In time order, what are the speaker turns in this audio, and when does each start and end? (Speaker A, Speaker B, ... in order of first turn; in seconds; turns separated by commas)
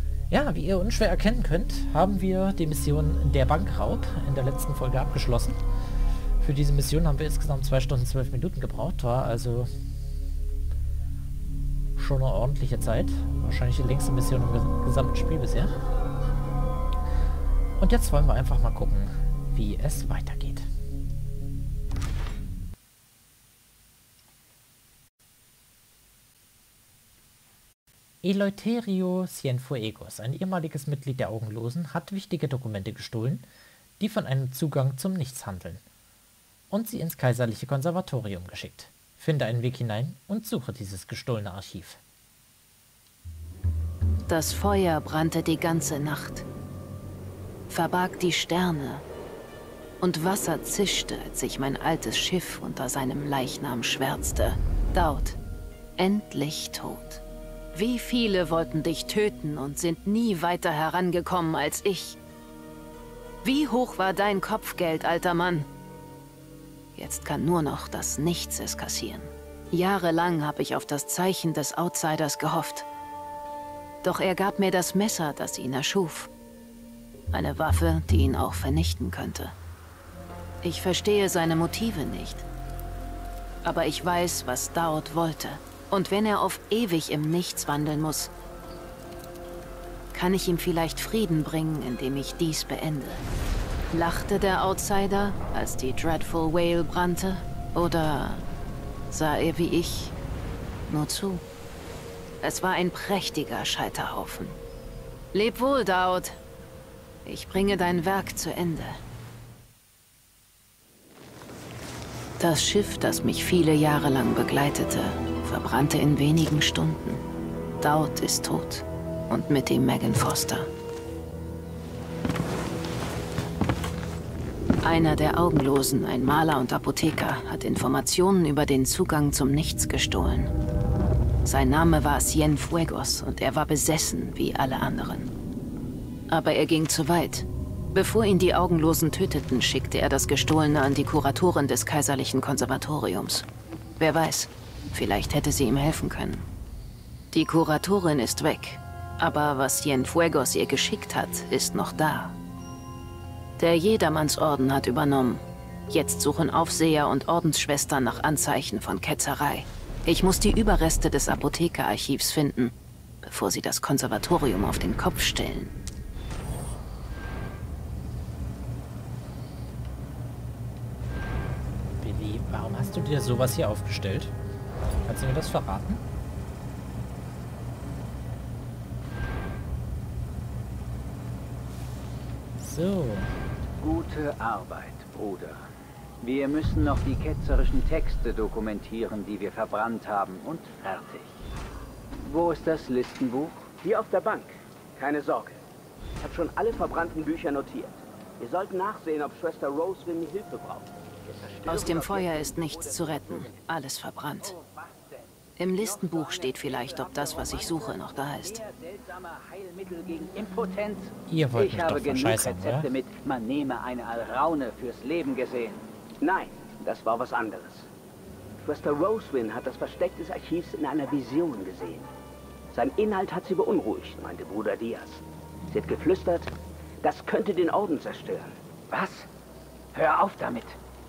Speaker A: 0.3-5.6, Speaker A: 6.4-9.7, Speaker A: 12.0-15.7, Speaker A: 17.8-20.7, Speaker A: 28.2-33.4, Speaker A: 34.0-35.8, Speaker A: 36.7-42.0, Speaker B: 44.3-46.5, Speaker B: 47.7-49.0, Speaker B: 50.0-55.4, Speaker B: 56.0-57.2, Speaker B: 57.7-62.2, Speaker B: 63.4-65.7, Speaker B: 67.0-72.9, Speaker B: 74.0-76.3, Speaker B: 77.3-79.5, Speaker B: 80.6-82.4, Speaker B: 83.6-88.3, Speaker B: 90.1-93.2, Speaker B: 93.9-98.4, Speaker B: 99.1-100.1, Speaker B: 100.9-101.4, Speaker B: 102.4-104.6, Speaker B: 105.3-106.4, Speaker B: 107.2-109.0, Speaker B: 112.4-117.2, Speaker B: 117.8-120.7, Speaker B: 124.8-130.5, Speaker B: 131.4-135.3, Speaker B: 136.3-143.5, Speaker B: 144.0-146.4, Speaker B: 147.3-152.3, Speaker B: 153.6-165.7, Speaker A: 172.0-174.3, Speaker A: 175.1-176.0, Speaker A: 182.6-183.3, Speaker C: 183.8-185.7, Speaker C: 186.2-191.3, Speaker C: 192.2-193.7, Speaker D: 193.8-195.6, Speaker D: 196.2-203.6, Speaker B: 201.7-204.5, Speaker C: 204.4-215.8, Speaker B: 205.6-208.6, Speaker A: 211.3-212.9, Speaker D: 216.2-217.9, Speaker D: 218.6-222.1, Speaker D: 222.7-228.6, Speaker C: 228.9-229.3, Speaker C: 229.9-230.8